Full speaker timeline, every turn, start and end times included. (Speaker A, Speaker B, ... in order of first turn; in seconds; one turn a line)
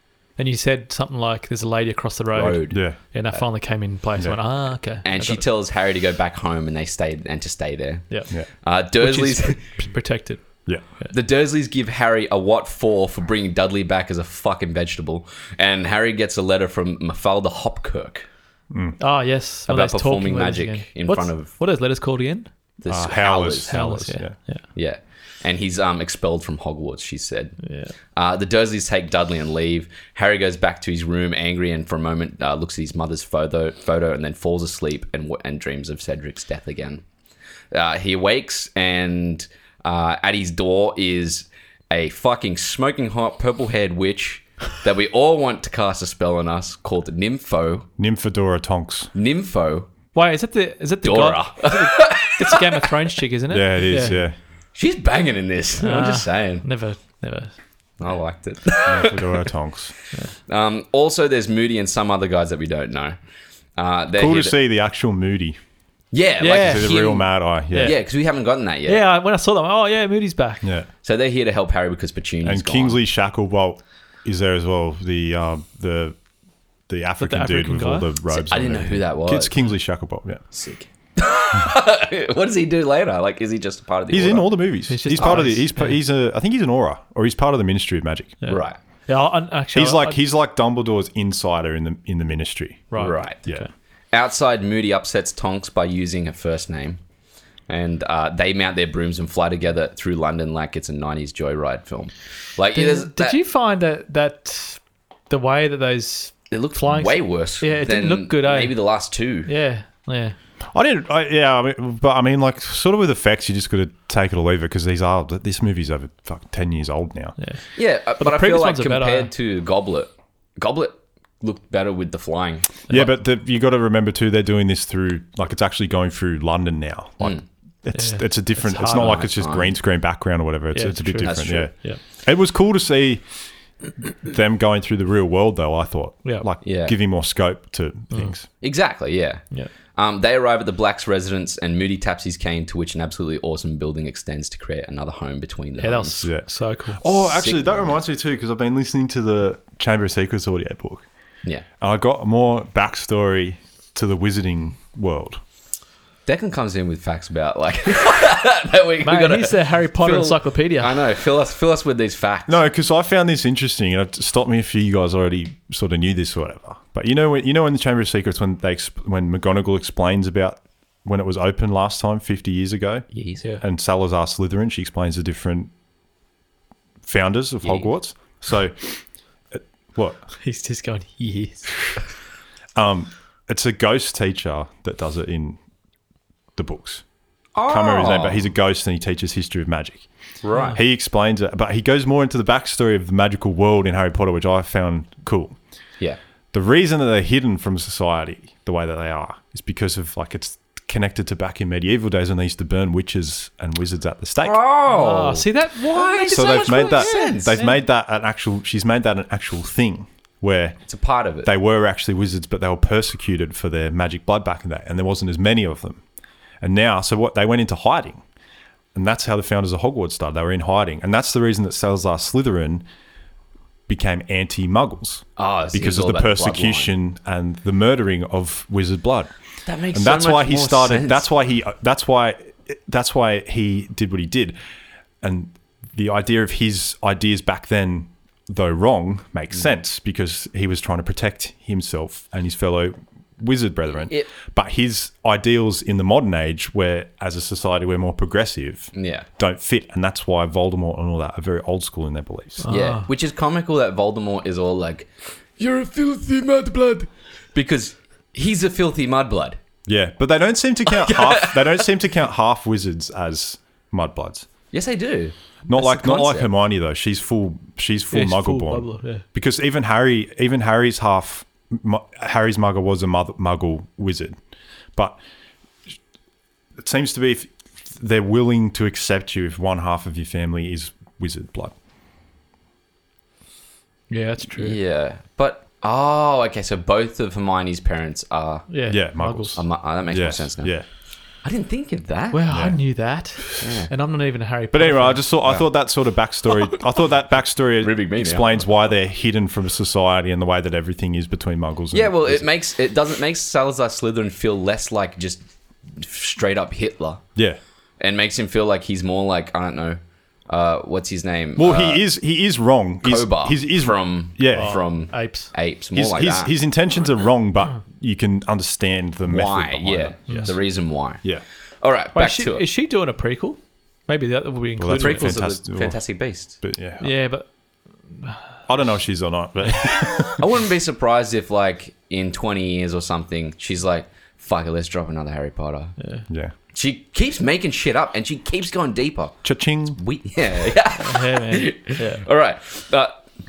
Speaker A: 0.3-5.4
Speaker B: 2.3-3.4
Speaker C: 2.7-3.0
Speaker B: 5.0-8.1
Speaker B: 8.6-9.6
Speaker A: 9.0-10.4
Speaker B: 11.1-18.2
Speaker C: 18.7-19.0
Speaker A: 19.0-22.5
Speaker B: 19.7-21.5
Speaker B: 22.8-23.8
Speaker C: 22.9-24.4
Speaker A: 23.7-24.6
Speaker B: 24.7-27.6
Speaker A: 27.6-27.9
Speaker B: 28.1-37.0
Speaker B: 37.7-47.9
Speaker C: 48.0-49.1
Speaker B: 49.1-49.9
Speaker A: 50.1-54.2
Speaker B: 51.0-52.9
Speaker C: 53.5-54.4
Speaker B: 54.7-56.6
Speaker A: 55.8-57.5
Speaker B: 58.0-59.5
Speaker C: 58.8-59.9
Speaker B: 60.5-63.1
Speaker B: 63.8-64.5
Speaker C: 64.1-65.6
Speaker B: 66.1-69.0
Speaker A: 66.4-67.0
Speaker C: 66.6-67.9
Speaker A: 67.7-68.0
Speaker A: 68.8-70.7
Speaker C: 70.6-70.9
Speaker B: 71.0-73.0
Speaker C: 72.4-76.2
Speaker C: 76.9-80.4
Speaker A: 77.2-78.1
Speaker B: 78.3-79.5
Speaker B: 80.5-84.6
Speaker C: 84.1-88.4
Speaker A: 84.9-86.0
Speaker B: 85.2-85.4
Speaker A: 88.4-90.2
Speaker B: 88.5-88.8
Speaker C: 89.7-93.7
Speaker A: 92.9-93.7
Speaker B: 93.0-93.4
Speaker B: 94.1-97.0
Speaker B: 97.7-103.4
Speaker A: 102.7-108.8
Speaker B: 106.5-109.5
Speaker A: 109.5-110.3
Speaker C: 110.7-117.3
Speaker B: 117.8-122.8
Speaker A: 118.2-119.3
Speaker C: 122.9-133.2
Speaker A: 127.9-129.3
Speaker B: 129.0-129.7
Speaker A: 130.7-132.0
Speaker B: 131.2-131.7
Speaker C: 134.0-138.4
Speaker B: 136.6-136.9
Speaker B: 138.6-139.4
Speaker B: 139.9-146.3
Speaker A: 145.8-147.0
Speaker C: 146.2-151.1
Speaker B: 147.2-147.9
Speaker C: 151.8-155.4
Speaker B: 156.2-162.6
Speaker A: 159.0-161.1
Speaker C: 162.5-173.1
Speaker B: 173.1-173.4
Speaker C: 173.6-175.7
Speaker C: 177.0-178.9
Speaker B: 177.6-177.9
Speaker C: 179.5-180.2
Speaker A: 180.4-181.9
Speaker C: 182.8-185.6
Speaker C: 186.6-187.0
Speaker B: 187.5-188.4
Speaker C: 187.7-190.1
Speaker B: 190.4-190.8
Speaker A: 190.5-190.8
Speaker C: 190.7-195.6
Speaker C: 196.5-204.6
Speaker B: 204.4-207.6
Speaker A: 204.9-207.8
Speaker C: 206.3-210.8
Speaker B: 210.9-211.5
Speaker C: 211.4-216.0
Speaker C: 216.6-218.2
Speaker C: 218.9-222.8
Speaker C: 223.9-229.3
Speaker B: 225.4-226.9
Speaker B: 229.7-231.2
Speaker C: 229.9-234.6
Speaker C: 235.2-252.7
Speaker B: 248.9-249.3
Speaker A: 252.6-253.1
Speaker B: 252.7-259.6
Speaker C: 259.9-264.5
Speaker B: 260.9-261.9
Speaker B: 264.7-266.5
Speaker C: 265.7-274.4
Speaker A: 268.1-269.2
Speaker C: 276.8-281.7
Speaker A: 284.1-284.8
Speaker B: 284.6-288.7
Speaker A: 288.7-289.6
Speaker C: 288.9-290.9
Speaker B: 289.5-290.7
Speaker B: 291.4-292.4
Speaker A: 292.3-295.3
Speaker C: 292.5-292.8
Speaker B: 293.6-293.9
Speaker C: 294.7-302.4
Speaker B: 297.8-298.6
Speaker B: 301.9-305.4
Speaker B: 305.9-307.2
Speaker B: 308.0-312.0
Speaker C: 311.6-314.8
Speaker B: 313.0-316.5
Speaker A: 314.5-315.5
Speaker C: 315.9-320.6
Speaker B: 319.3-321.2
Speaker B: 321.8-322.6
Speaker A: 322.1-325.4
Speaker C: 324.8-326.0
Speaker B: 324.9-326.6
Speaker C: 326.6-327.1
Speaker A: 327.0-327.5
Speaker C: 328.7-330.4
Speaker B: 330.4-335.9
Speaker A: 336.0-336.2
Speaker B: 336.7-339.4
Speaker C: 339.4-340.0
Speaker B: 339.9-343.2
Speaker A: 341.0-342.2